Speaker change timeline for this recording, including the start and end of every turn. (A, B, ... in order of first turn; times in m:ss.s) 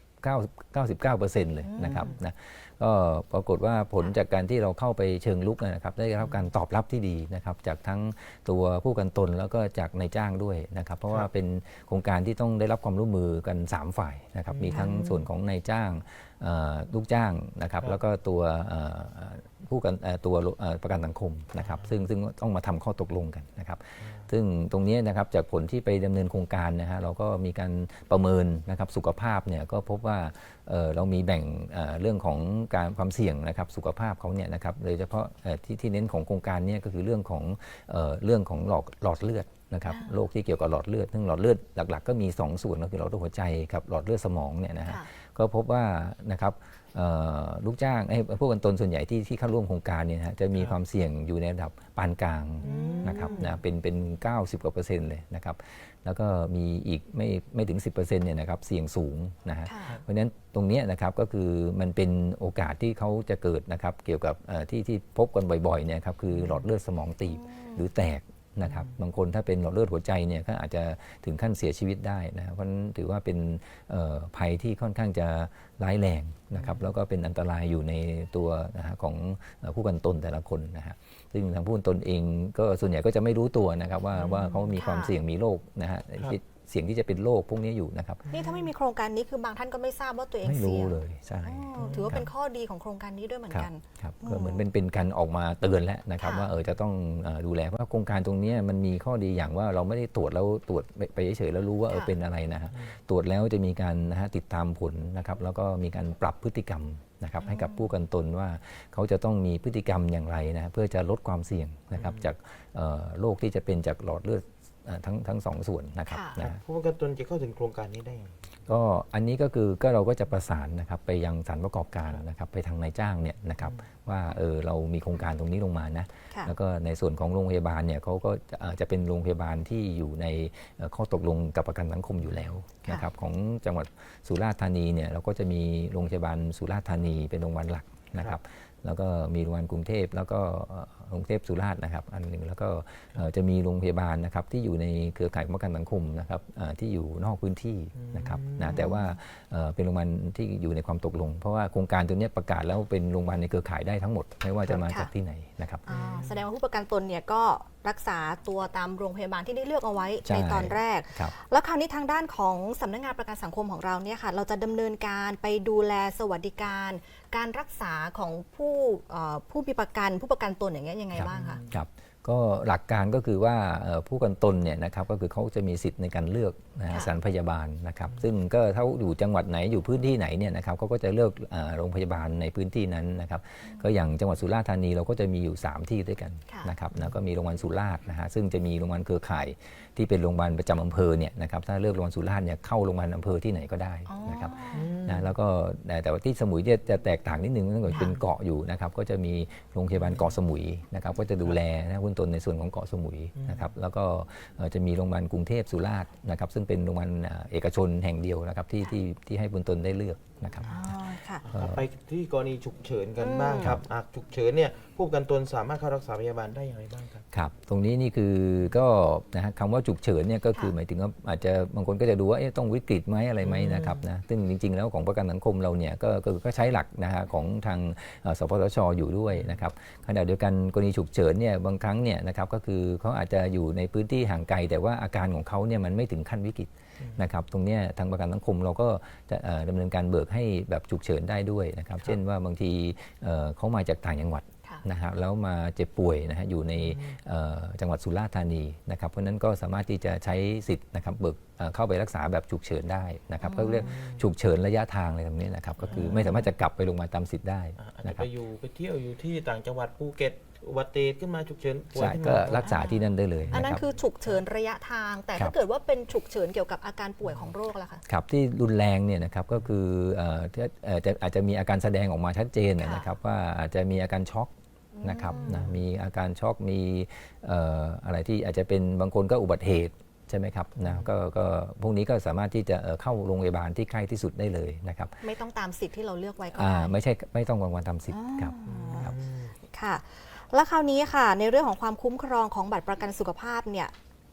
0:00.2-1:28.2 A
0:01.6-0:02.1 B
0:14.5-0:15.2 C
0:21.6-0:22.0 C
0:24.0-0:24.3 C
0:39.9-0:40.2 B
0:52.6-0:53.4 B
0:52.6-0:53.6 C
0:59.6-1:00.0 B
1:07.2-1:07.8 B
1:16.6-1:16.9 C
1:24.1-1:24.7 C
1:24.7-1:25.2 B
1:28.3-1:28.6 C
1:28.3-1:34.7 B
1:30.4-1:32.3 A
1:31.8-1:32.1 C
1:33.5-1:56.6 A
1:36.2-1:36.5 B
1:41.9-1:42.1 B
1:47.4-1:47.9 B
1:52.0-1:52.2 C
1:56.1-1:56.4 B
1:56.4-1:58.4 C
1:58.7-2:35.8 A
2:03.6-2:03.8 C
2:27.9-2:28.8 C
2:28.7-2:29.0 B
2:34.7-2:35.1 B
2:35.8-2:51.6 B
2:35.9-2:36.4 C
2:40.2-2:41.3 A
2:51.1-3:31.0 A
2:51.2-2:51.8 C
2:56.9-2:57.1 B
3:14.0-3:14.9 B
3:14.7-3:15.3 C
3:23.4-3:23.7 C
3:30.6-3:31.4 B
3:31.4-3:37.2 C
3:31.5-3:31.8 A
3:33.2-3:33.8 B
3:37.3-4:18.3 A
3:43.4-3:44.0 C
3:49.3-3:49.6 C
4:06.8-4:07.2 C
4:13.4-4:13.9 B
4:13.7-4:14.3 C
4:15.8-4:16.3 C
4:15.9-4:16.2 B
4:17.8-4:22.7 C
4:22.0-4:23.8 A
4:22.6-4:28.0 B
4:23.5-4:24.4 C
4:27.2-4:27.5 C
4:28.1-4:45.1 A
4:32.8-4:33.1 B
4:34.9-4:35.6 B
4:35.3-4:35.8 C
4:40.8-4:41.1 C
4:45.2-4:46.9 B
4:46.5-4:49.1 A
4:48.1-4:49.1 B
4:48.6-4:49.5 C
4:49.7-4:53.9 B